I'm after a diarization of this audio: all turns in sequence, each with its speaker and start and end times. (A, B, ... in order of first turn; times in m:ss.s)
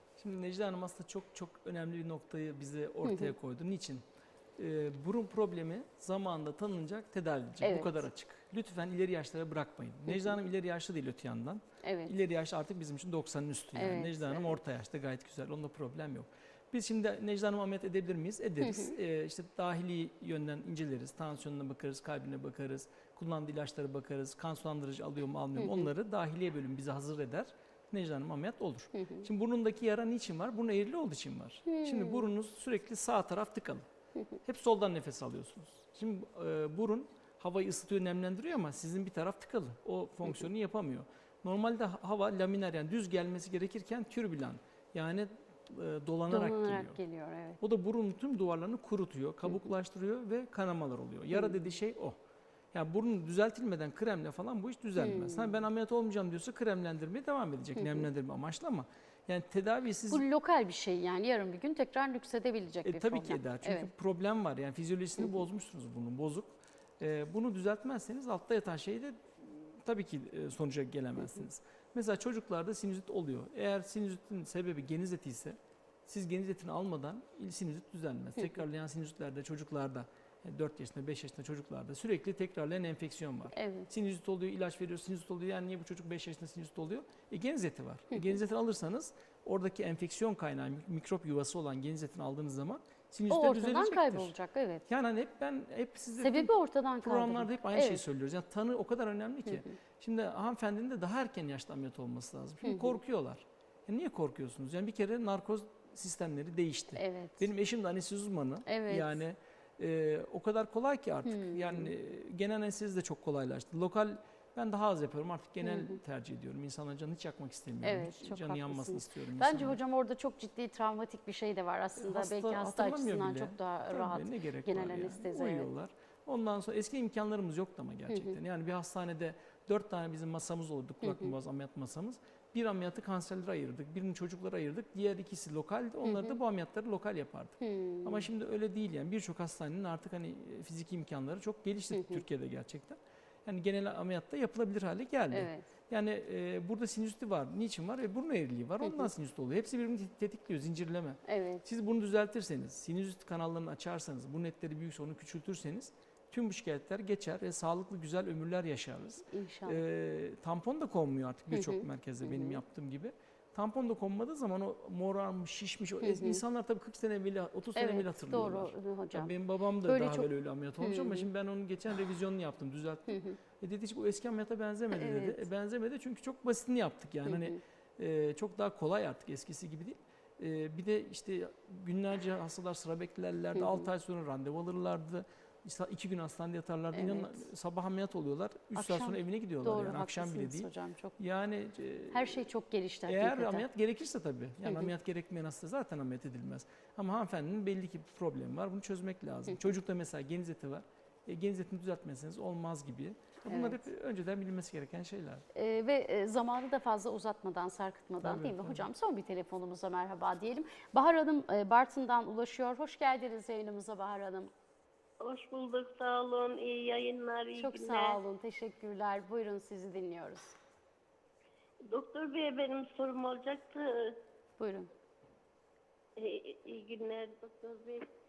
0:00.2-0:04.0 A
0:03.0-0:03.3 B
0:04.6-0:33.8 A
0:07.6-0:08.0 B
0:11.8-0:12.2 B
0:13.7-0:14.6 B
0:18.6-0:19.0 B
0:25.6-0:25.9 B
0:28.9-0:29.3 B
0:31.7-0:32.3 B
0:34.4-0:47.0 A
0:46.3-0:47.6 B
0:47.6-0:52.2 A
0:51.3-0:51.6 B
0:52.7-1:00.2 A
0:55.0-0:55.6 B
0:57.8-0:58.0 B
1:00.1-1:03.9 B
1:02.8-1:34.3 A
1:23.5-1:23.9 B
1:33.3-1:34.8 B
1:34.9-1:59.8 A
1:36.2-1:38.0 B
1:39.5-1:39.8 B
1:42.6-1:43.0 B
1:47.0-1:47.5 B
1:48.6-1:49.2 B
1:51.2-1:51.9 B
1:55.6-1:56.0 B
1:57.8-2:05.7 B
2:02.0-3:12.5 A
2:08.1-2:08.4 B
2:11.0-2:11.4 B
2:16.0-2:16.4 B
2:17.6-2:18.3 B
2:21.9-2:22.2 B
2:25.3-2:25.7 B
2:28.8-2:29.1 B
2:31.2-2:31.6 B
2:39.2-2:39.8 B
2:41.5-2:42.6 B
2:46.0-2:46.4 B
2:47.8-2:51.3 B
2:53.1-2:53.4 B
2:54.9-2:55.5 B
2:57.2-2:57.6 B
3:03.5-3:03.9 B
3:06.9-3:07.5 B
3:08.7-3:11.2 B
3:12.1-3:13.7 B
3:13.1-3:25.4 A
3:14.6-3:14.9 B
3:23.4-3:23.9 B
3:25.5-3:34.5 B
3:28.2-3:28.9 A
3:35.2-3:38.2 C
3:37.5-3:40.6 B
3:41.8-3:44.2 C
3:44.6-3:44.9 B
3:46.2-3:48.1 C